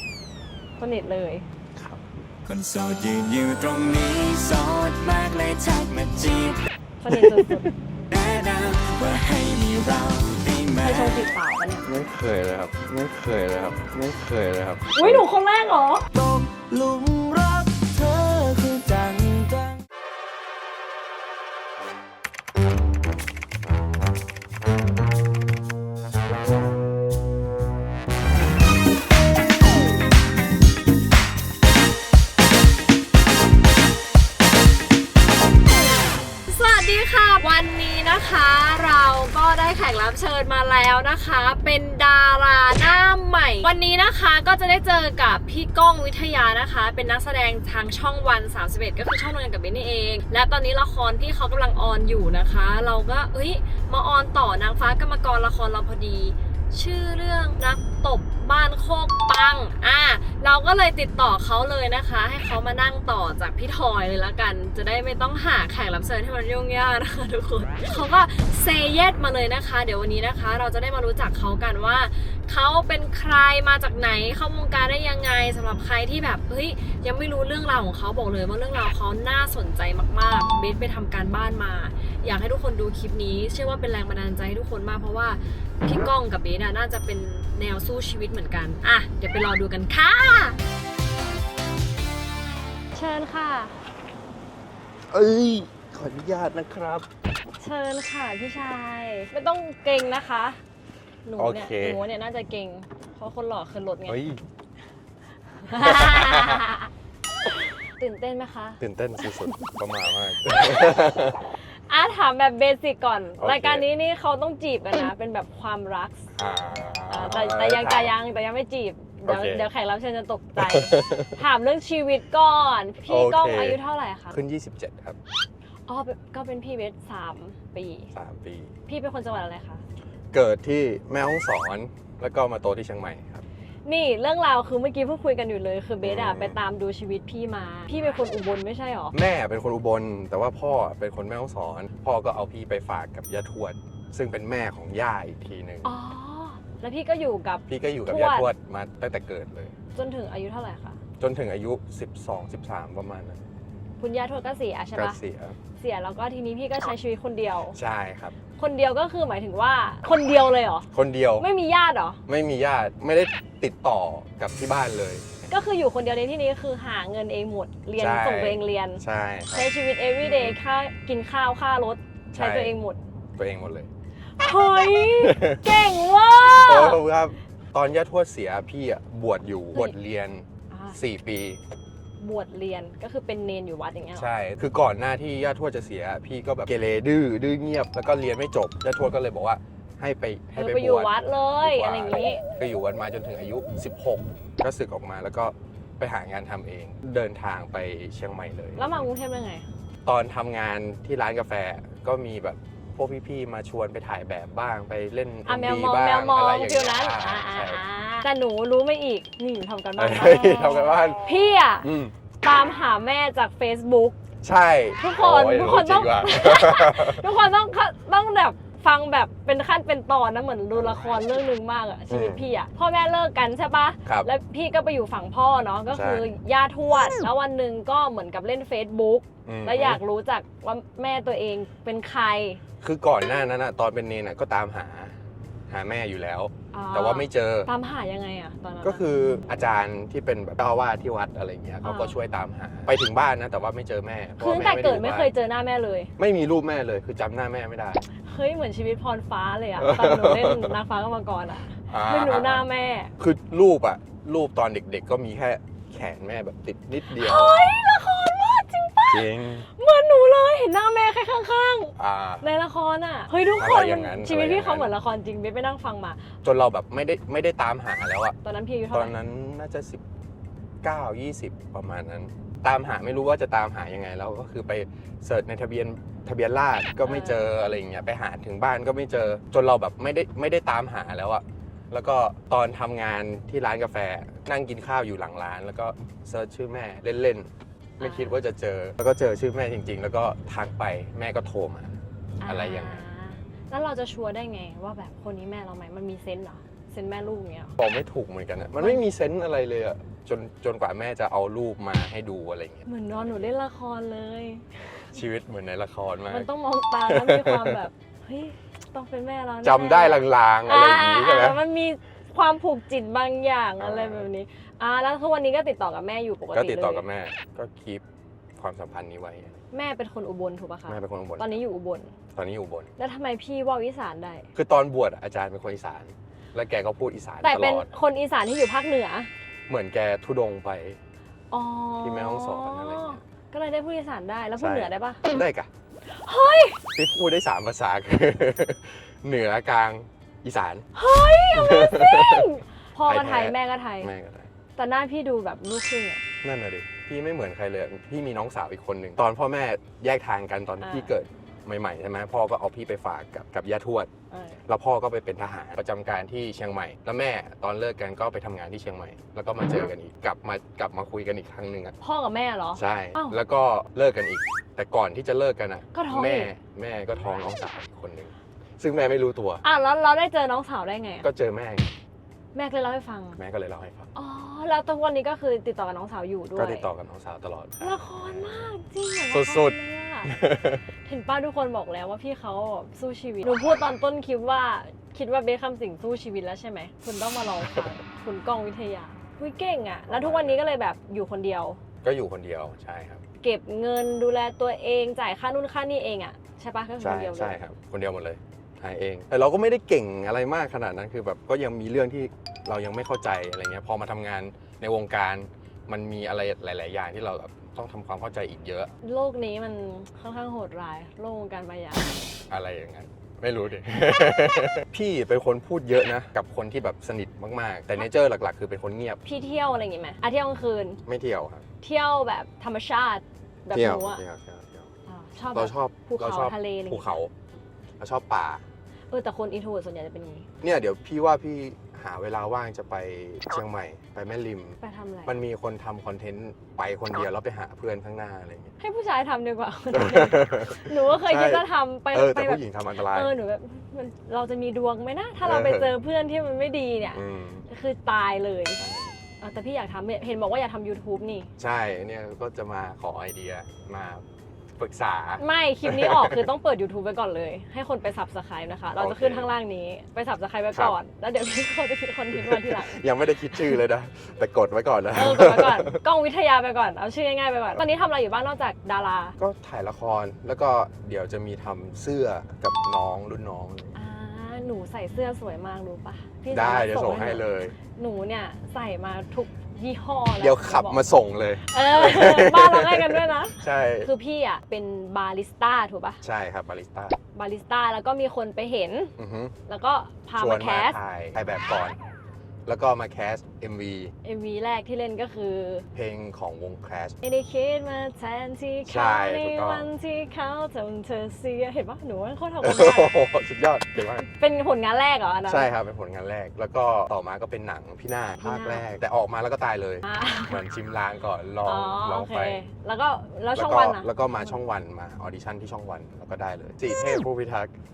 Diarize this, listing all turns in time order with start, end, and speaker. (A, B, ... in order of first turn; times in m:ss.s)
0:00.8-0:01.4 A
0:01.7-0:02.2 B
0:02.4-0:06.6 C
0:07.0-0:07.7 A
0:08.1-0:11.3 C
0:10.8-0:11.9 A
0:11.8-0:15.2 B
0:14.9-0:16.0 A
0:16.1-0:19.8 C
0:36.4-1:30.6 A
1:32.9-1:33.8 A
1:35.1-1:37.0 B
1:37.6-1:40.6 A
1:41.2-1:44.2 A
1:41.4-1:42.0 B
1:44.1-1:44.4 B
1:45.6-1:46.9 A
1:45.7-1:46.6 B
1:47.5-1:49.7 A
1:48.8-1:51.4 B
1:50.5-1:50.9 A
1:51.6-1:56.3 A
1:53.4-1:53.8 B
1:56.4-1:58.2 B
1:57.1-2:04.4 A
1:59.3-1:59.7 B
2:00.6-2:01.4 B
2:03.1-2:03.8 B
2:04.3-2:05.2 B
2:05.9-2:08.1 A
2:08.1-2:08.7 B
2:08.8-2:09.8 A
2:10.3-2:13.4 B
2:13.8-2:19.1 A
2:16.0-2:16.6 B
2:19.1-2:25.9 B
2:25.8-2:28.5 A
2:27.7-2:29.8 B
2:29.9-2:31.0 A
2:31.2-2:33.4 B
2:34.0-2:35.2 A
2:34.9-2:35.6 B
2:35.8-2:37.8 A
2:37.7-2:38.3 B
2:38.6-2:42.2 A
2:40.9-2:41.4 B
2:42.3-2:45.3 B
2:45.5-2:49.0 A
2:48.0-2:49.7 B
2:49.5-2:53.0 A
2:50.2-2:50.6 B
2:52.3-2:52.8 B
2:53.4-2:53.9 B
2:54.4-2:57.0 A
2:55.2-2:55.7 B
2:56.5-3:01.6 B
3:00.7-3:01.0 A
3:02.2-3:04.3 A
3:04.1-3:19.1 B
3:10.5-3:12.4 A
3:18.8-3:19.6 A
3:20.0-3:27.8 B
3:25.4-3:31.9 A
3:30.0-3:31.2 B
3:31.8-3:32.1 B
3:32.4-3:34.2 A
3:34.4-3:37.3 B
3:35.0-3:52.6 A
3:42.1-3:42.4 B
3:45.9-3:46.2 B
3:49.4-3:50.0 B
3:52.8-3:55.2 B
3:55.7-3:57.7 B
3:56.7-3:59.0 A
3:58.8-4:05.3 B
4:01.8-4:02.1 A
4:04.4-4:06.1 A
4:06.2-4:08.0 B
4:08.2-4:13.1 A
4:09.8-4:10.8 B
4:11.9-4:12.7 B
4:13.2-4:17.6 B
4:17.1-4:26.2 A
4:19.1-4:19.7 B
4:22.0-4:22.4 B
4:23.6-4:24.9 B
4:26.4-4:28.4 B
4:28.4-4:29.1 A
4:28.9-4:30.0 B
4:30.8-4:53.0 B
4:37.0-4:37.4 A
4:48.0-4:48.3 A
4:52.4-4:57.7 A
4:57.8-5:03.4 B
5:02.8-5:05.1 A
5:05.1-5:07.8 B
5:06.3-5:17.0 A
5:09.6-5:11.6 B
5:13.8-5:14.3 B
5:16.5-5:18.0 B
5:18.6-5:19.6 B
5:19.7-5:22.1 A
5:20.9-5:21.6 B
5:22.3-5:22.9 B
5:23.0-5:24.5 A
5:24.5-5:27.9 B
5:27.4-5:29.3 A
5:29.7-5:31.0 B
5:31.5-5:35.2 A
5:32.0-5:33.2 B
5:34.6-5:35.7 B
5:36.0-5:36.8 A
5:36.9-5:40.9 B
5:40.9-5:44.1 A
5:41.5-5:42.5 B
5:43.0-5:44.5 B
5:44.8-5:46.2 A
5:46.4-5:54.1 B
5:50.8-5:51.1 A
5:54.3-5:54.6 A
5:54.7-6:02.0 B
6:02.0-6:03.4 A
6:02.7-6:09.6 B
6:05.9-6:06.5 A
6:09.6-6:11.3 A
6:11.2-6:11.9 B
6:12.5-6:13.4 A
6:13.4-6:14.1 B
6:14.1-6:16.9 A
6:16.5-6:18.6 B
6:17.8-6:20.3 A
6:19.3-6:20.8 B
6:21.0-6:31.8 A
6:30.1-6:30.6 B
6:32.0-6:33.2 B
6:33.4-6:37.6 A
6:37.0-6:48.9 B
6:49.0-6:52.2 A
6:52.5-6:59.2 B
6:59.2-7:01.0 A
7:01.0-7:01.6 B
7:01.8-7:04.2 A
7:03.7-7:04.9 B
7:05.1-7:07.2 A
7:05.5-7:07.3 B
7:08.0-7:08.6 B
7:09.1-7:10.5 A
7:10.6-7:18.7 B
7:14.8-7:15.4 A
7:18.8-7:28.8 A
7:19.9-7:23.3 B
7:25.4-7:26.0 B
7:27.1-7:27.6 B
7:28.8-7:29.2 B
7:29.4-7:31.5 A
7:31.6-7:34.2 B
7:34.8-7:36.4 B
7:35.4-7:43.8 A
7:39.0-7:39.5 B
7:40.7-7:41.0 B
7:42.3-7:46.0 B
7:45.1-7:49.4 A
7:49.4-7:53.9 B
7:53.9-8:01.0 A
7:56.5-7:57.7 B
8:00.4-8:04.1 B
8:01.6-8:06.2 A
8:06.2-8:07.2 B
8:07.3-8:09.1 A
8:09.2-8:09.5 B
8:09.7-8:11.0 A
8:10.4-8:12.0 B
8:12.6-8:14.1 B
8:14.2-8:15.8 A
8:15.9-8:17.2 B
8:17.2-8:23.2 A
8:18.8-8:19.9 B
8:22.6-8:24.3 B
8:24.3-8:25.7 A
8:25.4-8:32.6 B
8:28.4-8:28.8 A
8:30.0-8:30.6 A
8:31.6-8:34.5 A
8:33.5-8:37.7 B